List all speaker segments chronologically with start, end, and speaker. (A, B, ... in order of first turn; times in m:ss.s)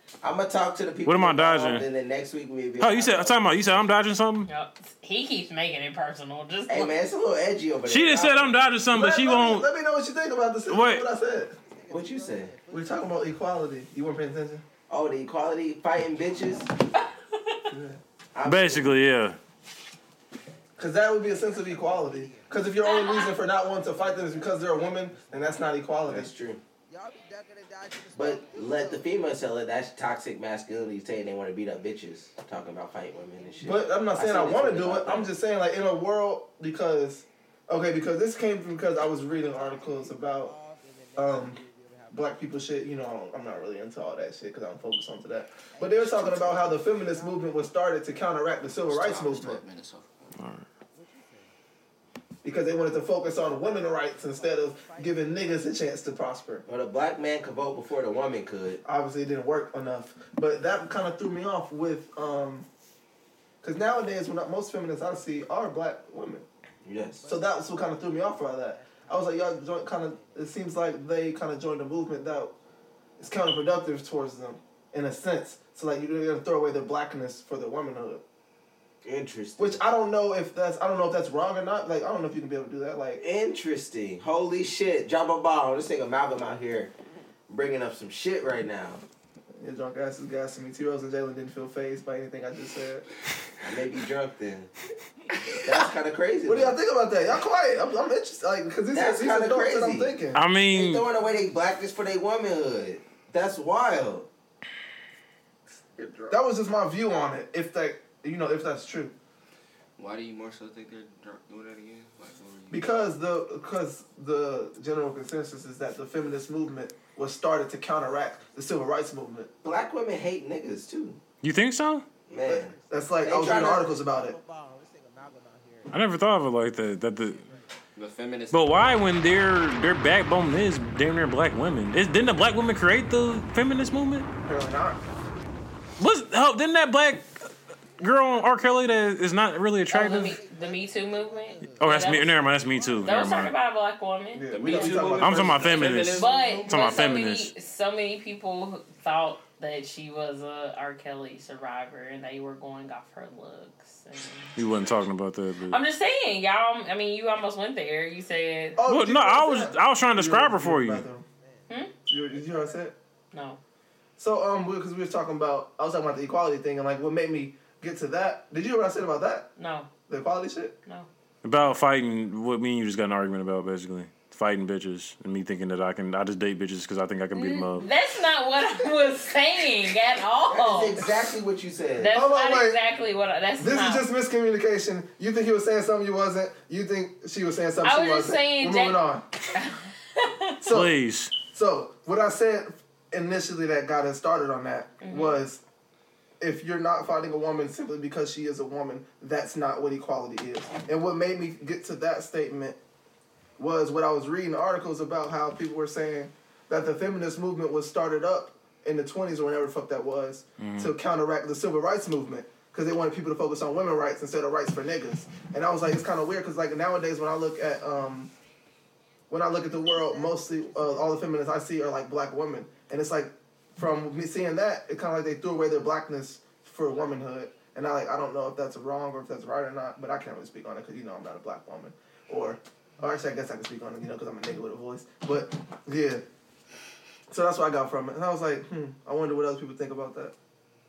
0:00.2-0:03.9 A
0:01.0-0:01.9 B
0:02.8-0:04.5 B
0:04.5-0:07.0 C
0:06.7-0:08.6 A
0:07.9-0:09.7 B
0:08.9-0:11.6 D
0:10.7-0:11.0 B
0:11.9-0:12.6 A
0:12.7-0:14.6 D
0:14.9-0:16.7 A
0:17.0-0:17.6 C
0:17.7-0:18.0 D
0:18.3-0:18.9 A
0:18.4-0:19.4 B
0:20.8-0:26.3 D
0:22.8-0:23.4 C
0:26.1-0:26.6 A
0:28.1-0:35.3 A
0:33.6-0:40.6 D
0:41.2-0:49.6 D
0:48.9-0:50.4 E
0:50.4-0:50.6 B
0:52.4-0:56.6 D
0:56.7-0:58.8 A
0:58.8-1:02.7 D
1:03.6-1:06.5 D
1:06.8-1:07.3 A
1:07.3-1:12.5 D
1:13.2-1:18.2 D
1:19.0-1:19.8 A
1:19.6-1:23.2 D
1:23.2-1:26.9 A
1:27.5-1:29.0 A
1:29.6-1:33.1 D
1:33.6-1:34.7 A
1:35.6-1:36.8 A
1:36.5-1:40.4 D
1:38.9-1:40.2 A
1:40.3-1:41.1 B
1:40.7-1:44.3 A
1:46.0-1:46.4 E
1:46.3-1:49.2 D
1:50.0-1:52.8 E
1:52.7-1:59.5 D
1:59.6-2:01.2 A
2:01.4-2:02.0 B
2:02.3-2:03.9 A
2:02.4-2:04.4 D
2:05.9-2:07.5 B
2:08.0-2:09.1 E
2:08.5-2:14.3 B
2:14.4-2:15.0 D
2:16.0-2:17.3 B
2:18.0-2:20.4 B
2:19.9-2:25.0 C
2:21.8-2:23.5 B
2:24.3-2:26.0 D
2:24.5-2:26.8 E
2:25.2-2:27.5 B
2:25.9-2:34.6 C
2:34.6-2:35.8 B
2:35.7-2:38.8 C
2:38.8-2:41.3 D
2:38.9-2:41.0 B
2:42.1-2:43.0 D
2:43.3-2:43.6 C
2:44.2-2:49.5 D
2:49.6-2:49.9 C
2:50.1-2:50.8 D
2:51.4-2:57.9 B
2:57.3-3:01.0 C
3:00.5-3:02.2 A
3:02.0-3:04.1 C
3:02.1-3:02.8 D
3:03.6-3:09.3 D
3:07.8-3:09.0 C
3:09.5-3:10.6 C
3:10.6-3:15.6 D
3:10.7-3:11.4 B
3:15.0-3:15.4 C
3:16.4-3:22.8 D
3:23.6-3:38.3 D
3:30.6-3:30.9 B
3:39.3-3:56.2 D
3:57.3-4:00.3 D